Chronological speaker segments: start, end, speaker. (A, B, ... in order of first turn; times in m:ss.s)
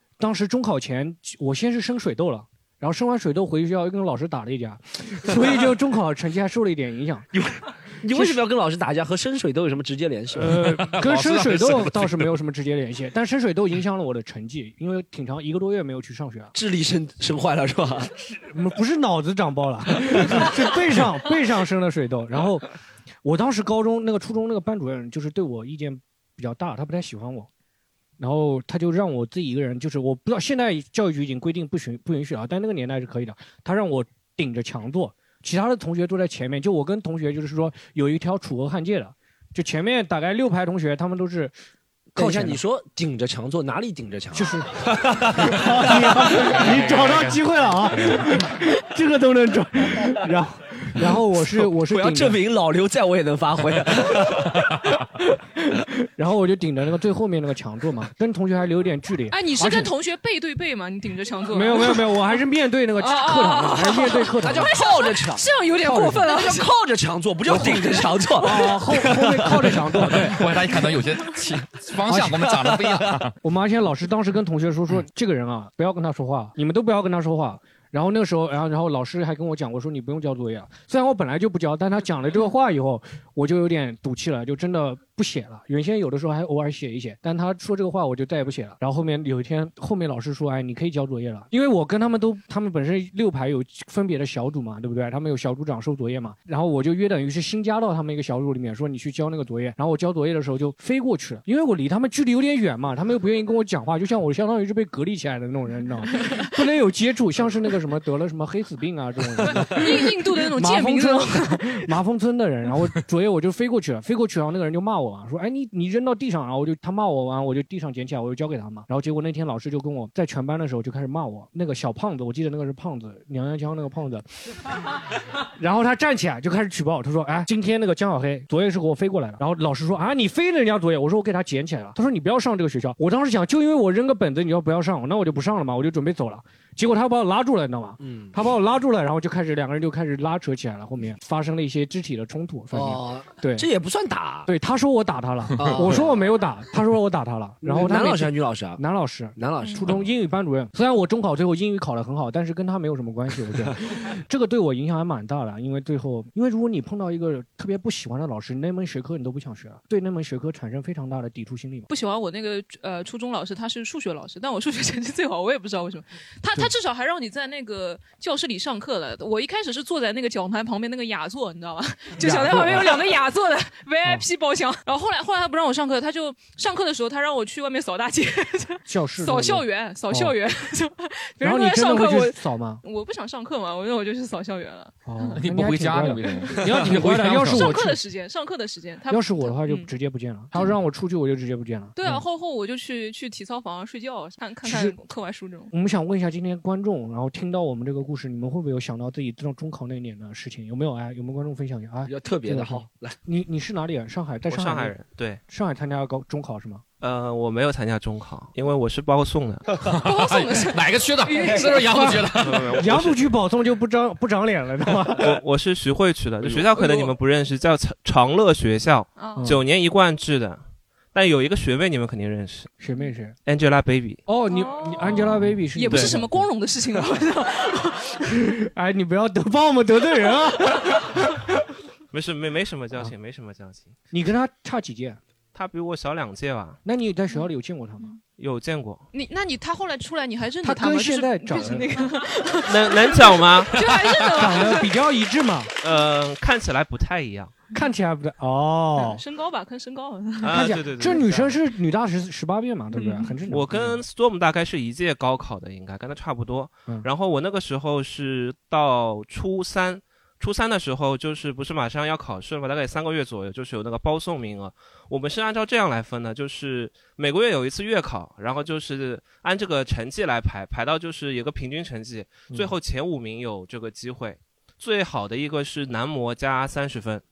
0:00.2-0:07.3 A
0:07.3-0:10.6 B
0:08.1-0:08.4 A
0:10.3-0:16.5 A
0:10.6-0:12.3 C
0:16.5-0:18.1 B
0:18.2-0:22.7 A
0:20.2-0:20.5 B
0:23.2-0:27.5 A
0:28.2-0:41.5 A
0:42.1-0:46.6 B
0:42.2-0:42.6 A
0:44.3-0:52.4 A
0:46.6-0:47.3 C
0:51.4-0:54.7 B
0:55.6-0:59.9 A
0:59.3-1:02.4 D
1:01.5-1:04.7 A
1:03.0-1:06.7 D
1:04.4-1:10.4 B
1:05.8-1:06.2 A
1:07.4-1:10.5 A
1:10.1-1:13.3 C
1:12.1-1:12.4 A
1:12.4-1:13.1 B
1:13.4-2:04.2 A
1:49.4-1:51.8 D
2:05.6-2:23.7 A
2:18.0-2:18.3 B
2:22.7-2:24.5 B
2:24.5-2:41.9 A
2:25.6-2:26.2 B
2:27.6-2:28.8 B
2:29.4-2:30.0 B
2:41.9-3:05.4 D
2:52.2-2:53.0 A
2:58.8-3:00.3 A
3:01.4-3:02.8 A
3:05.0-3:08.0 A
3:05.3-3:07.8 C
3:07.4-3:09.9 D
3:09.1-3:12.2 A
3:12.0-3:15.7 D
3:14.6-3:15.0 A
3:15.7-3:24.9 A
3:22.0-3:23.2 B
3:24.5-3:25.4 E
3:25.5-3:26.8 A
3:27.0-3:29.6 E
3:29.8-3:33.2 C
3:30.0-3:32.0 D
3:31.8-3:35.4 A
3:32.4-3:33.0 E
3:35.2-3:42.7 E
3:36.8-3:37.1 D
3:39.2-3:39.5 D
3:42.8-3:43.4 A
3:43.4-3:44.2 E
3:44.2-3:46.4 A
3:44.5-3:48.2 D
3:48.4-3:51.1 A
3:52.1-3:53.9 E
3:54.1-3:55.2 A
3:55.5-3:56.8 E
3:56.8-3:58.1 A
3:58.4-3:59.0 E
3:59.1-4:04.9 D
4:00.6-4:01.9 A
4:02.7-4:03.7 E
4:04.3-4:05.7 A
4:05.8-4:07.6 E
4:07.7-4:09.2 A
4:09.0-4:10.5 D
4:10.4-4:11.6 E
4:10.4-4:14.0 A
4:12.9-4:13.3 D
4:13.5-4:37.2 E